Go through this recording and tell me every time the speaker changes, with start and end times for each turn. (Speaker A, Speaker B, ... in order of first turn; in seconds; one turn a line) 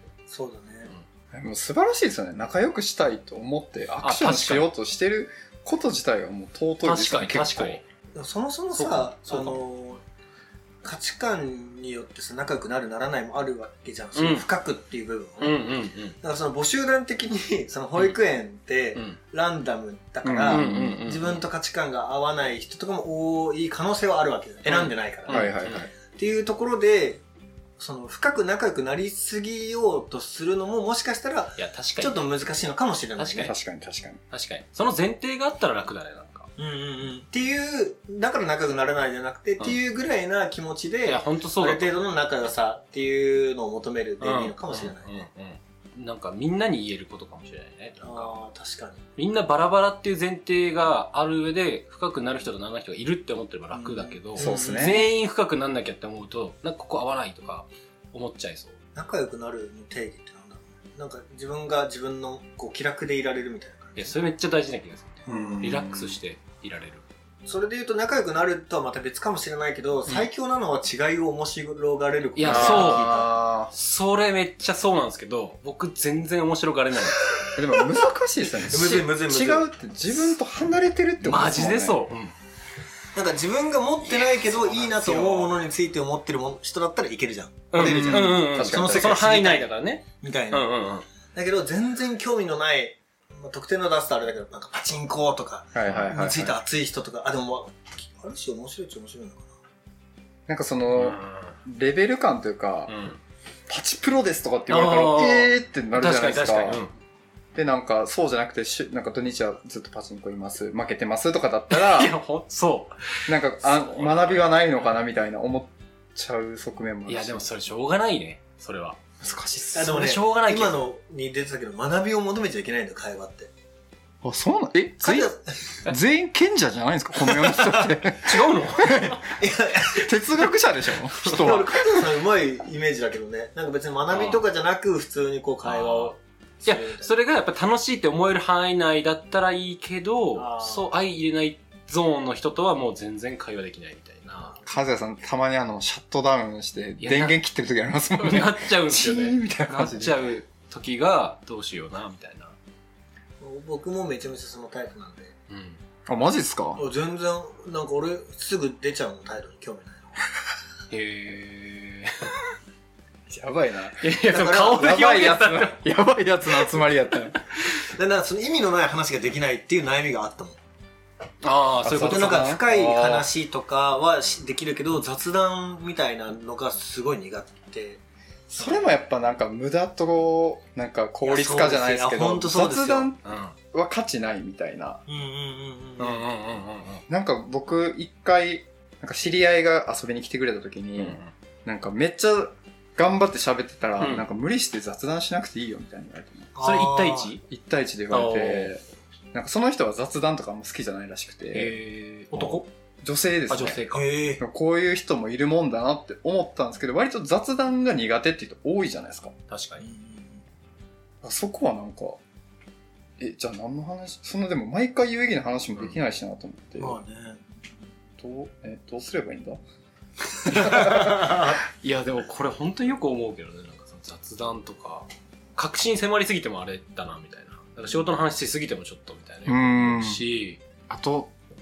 Speaker A: 0.3-0.9
Speaker B: 1.3-7.8
Speaker C: 4.0-4.7
Speaker C: 6.8-7.8
Speaker A: 8.2-10.0
Speaker C: 8.7-9.6
Speaker A: 10.8-15.7
Speaker C: 14.2-14.5
Speaker C: 15.4-16.2
Speaker A: 16.2-25.5
Speaker B: 20.2-21.0
Speaker C: 20.5-21.4
Speaker C: 24.7-25.9
Speaker B: 25.3-25.9
Speaker A: 26.1-27.2
Speaker A: 27.8-33.5
Speaker C: 31.6-32.2
Speaker C: 33.2-33.5
Speaker B: 33.5-34.2
Speaker C: 34.3-36.5
Speaker A: 36.6-45.3
Speaker C: 41.0-41.9
Speaker C: 44.2-48.3
Speaker A: 48.0-49.0
Speaker C: 49.2-58.8
Speaker A: 53.7-55.0
Speaker B: 54.4-55.1
Speaker A: 59.0-64.2
Speaker C: 64.0-67.0
Speaker B: 65.3-66.2
Speaker A: 67.5-73.3
Speaker C: 72.4-73.1
Speaker B: 72.4-73.7
Speaker C: 73.7-77.5
Speaker B: 77.6-82.0
Speaker A: 78.5-80.3
Speaker C: 81.2-82.3
Speaker A: 83.2-90.8
Speaker C: 84.5-85.5
Speaker C: 87.7-91.0
Speaker B: 87.8-89.2
Speaker A: 91.3-99.5
Speaker B: 95.8-96.6
Speaker B: 100.5-103.0
Speaker C: 100.9-101.5
Speaker C: 102.9-103.2
Speaker B: 103.7-106.8
Speaker C: 104.7-106.9
Speaker B: 107.5-112.1
Speaker C: 111.7-114.5
Speaker B: 113.3-117.5
Speaker C: 117.1-119.0
Speaker B: 119.2-119.9
Speaker A: 119.7-123.5
Speaker C: 119.8-120.8
Speaker B: 124.2-125.3
Speaker A: 125.0-125.5
Speaker B: 125.9-129.2
Speaker A: 127.3-128.0
Speaker C: 128.2-129.2
Speaker A: 129.3-130.5
Speaker B: 129.9-132.1
Speaker A: 131.2-137.1
Speaker C: 134.1-134.4
Speaker C: 135.6-144.5
Speaker A: 140.4-140.9
Speaker B: 144.7-150.3
Speaker C: 147.0-147.4
Speaker C: 148.2-152.6
Speaker A: 153.4-155.3
Speaker C: 155.5-155.8
Speaker B: 156.1-156.8
Speaker A: 156.8-160.1
Speaker C: 160.9-162.3
Speaker B: 163.3-164.1
Speaker C: 164.0-165.8
Speaker A: 164.3-164.8
Speaker B: 164.7-167.4
Speaker A: 167.9-170.6
Speaker C: 171.4-172.6
Speaker B: 171.8-173.3
Speaker A: 172.0-178.0
Speaker A: 178.5-178.8
Speaker B: 178.5-185.0
Speaker A: 181.2-183.1
Speaker C: 183.2-183.6
Speaker A: 185.1-186.3
Speaker C: 186.0-187.0
Speaker B: 187.1-196.5
Speaker C: 191.0-191.3
Speaker C: 194.0-194.2
Speaker A: 196.6-197.3
Speaker C: 196.6-197.4
Speaker B: 197.5-198.8
Speaker C: 198.1-198.7
Speaker B: 199.3-201.8
Speaker C: 201.5-202.7
Speaker B: 202.3-203.8
Speaker C: 203.5-204.1
Speaker A: 203.9-204.4
Speaker B: 204.4-209.3
Speaker C: 209.5-209.9
Speaker A: 209.8-210.4
Speaker B: 211.2-212.2
Speaker B: 213.2-217.0
Speaker A: 216.8-217.4
Speaker B: 218.2-219.6
Speaker B: 220.3-221.3
Speaker C: 220.5-230.6
Speaker A: 221.0-221.5
Speaker B: 229.5-230.2
Speaker B: 230.9-231.3